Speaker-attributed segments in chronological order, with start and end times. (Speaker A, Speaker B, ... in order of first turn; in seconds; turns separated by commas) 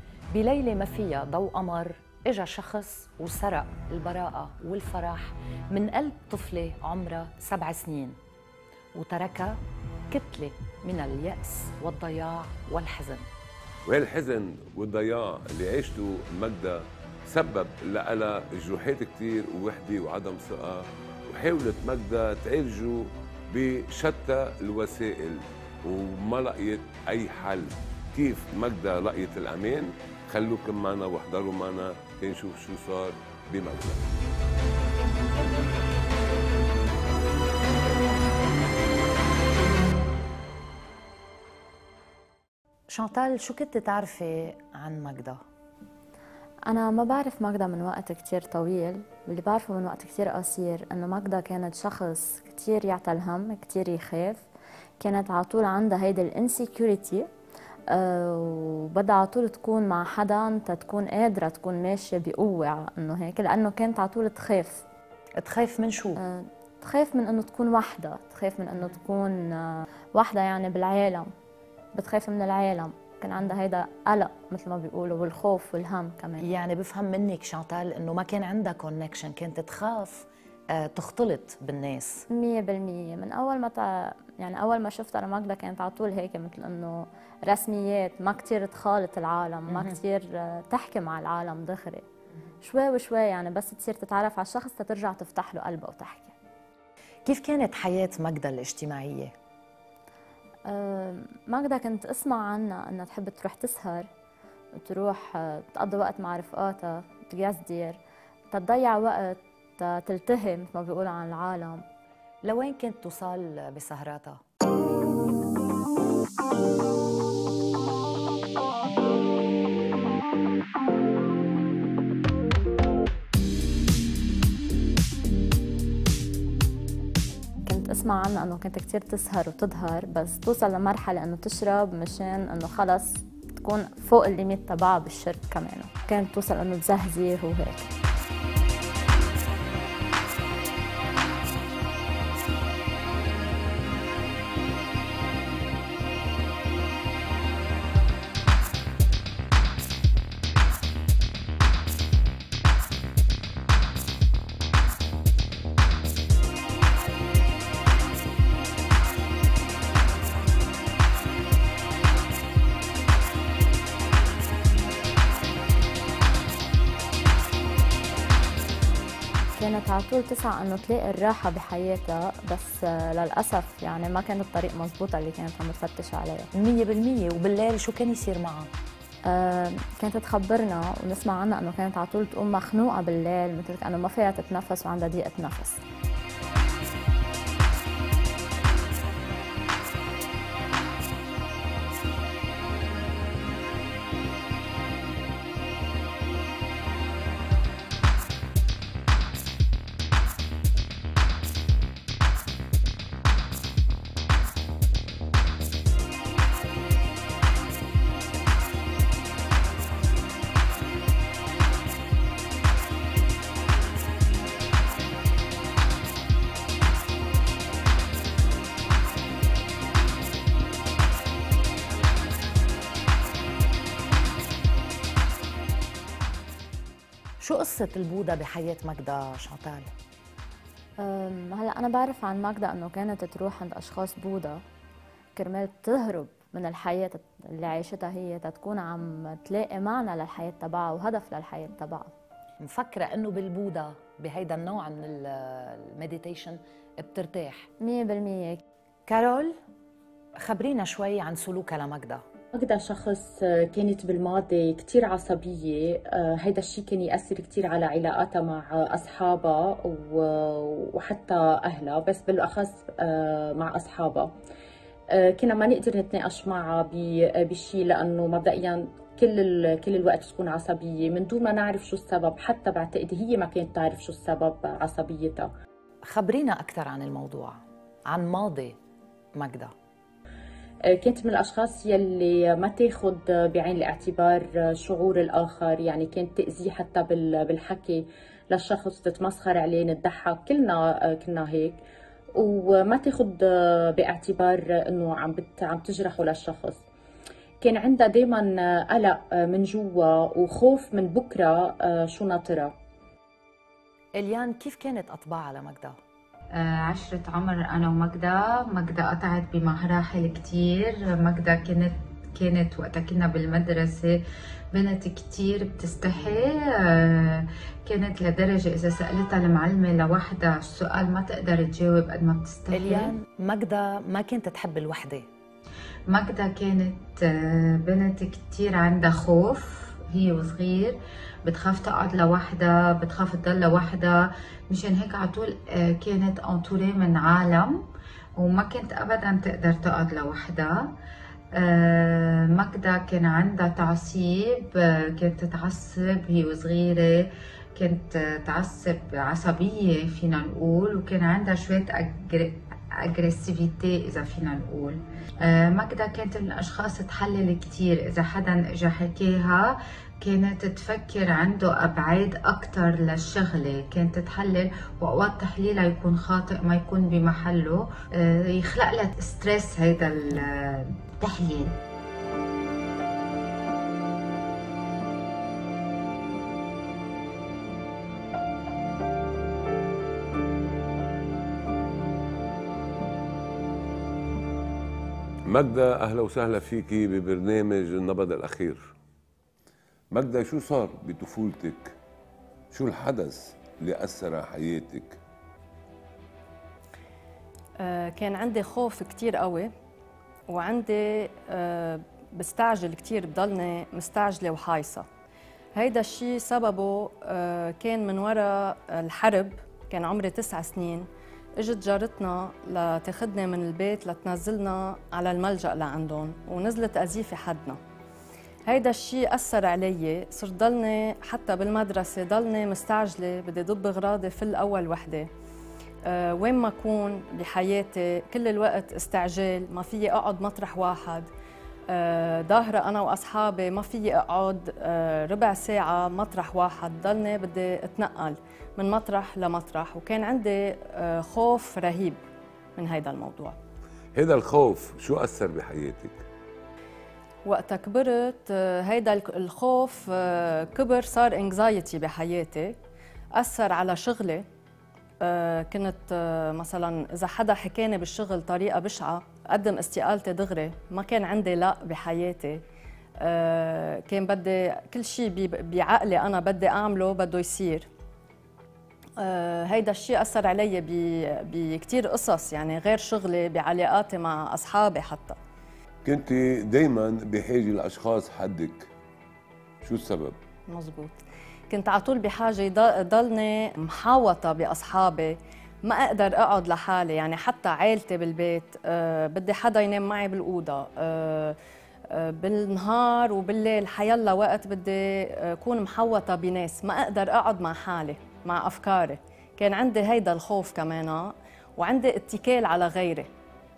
Speaker A: 0.3-8.2, Speaker A: 8.9-9.6, Speaker A: 10.1-13.2, Speaker B: 13.9-34.1, Speaker A: 42.9-45.4, Speaker C: 46.7-54.4, Speaker C: 55.0-57.3, Speaker C: 57.9-64.8, Speaker A: 65.4-66.2, Speaker C: 66.2-71.3, Speaker C: 72.0-76.5, Speaker A: 76.4-82.2, Speaker C: 82.3-92.0, Speaker A: 89.7-90.0, Speaker C: 92.6-96.3, Speaker A: 97.3-99.3, Speaker C: 100.7-104.1, Speaker C: 104.8-108.0, Speaker C: 108.5-111.8, Speaker A: 112.4-114.4, Speaker C: 127.7-137.9, Speaker C: 169.6-176.5, Speaker A: 176.5-178.7, Speaker C: 179.3-185.8, Speaker A: 227.4-229.9, Speaker C: 231.0-234.6, Speaker C: 235.4-242.1, Speaker A: 242.6-247.7, Speaker C: 247.8-248.6, Speaker A: 249.1-249.6, Speaker A: 250.4-252.2, Speaker D: 252.5-264.3, Speaker D: 265.1-275.5, Speaker A: 276.1-278.8, Speaker A: 279.4-279.7, Speaker D: 280.9-291.8, Speaker D: 292.4-296.8, Speaker D: 297.6-302.8, Speaker A: 304.2-306.0, Speaker E: 306.5-314.2, Speaker E: 314.7-323.1, Speaker A: 322.7-325.3, Speaker E: 326.1-337.9, Speaker E: 338.4-340.9, Speaker E: 341.6-371.8, Speaker B: 385.5-388.9, Speaker B: 390.1-392.0, Speaker B: 392.7-395.2, Speaker F: 397.8-399.7, Speaker F: 400.5-405.1, Speaker F: 405.8-417.8, Speaker F: 418.7-425.3, Speaker F: 426.1-431.3, Speaker F: 431.9-442.2, Speaker F: 442.8-443.6, Speaker B: 444.1-446.2, Speaker F: 447.4-452.8, Speaker F: 453.4-454.4, Speaker F: 455.2-462.6, Speaker F: 463.2-467.9, Speaker F: 469.2-475.4, Speaker B: 476.1-478.9, Speaker B: 479.8-480.4, Speaker F: 480.7-481.2, Speaker F: 481.7-491.6, Speaker F: 492.1-503.3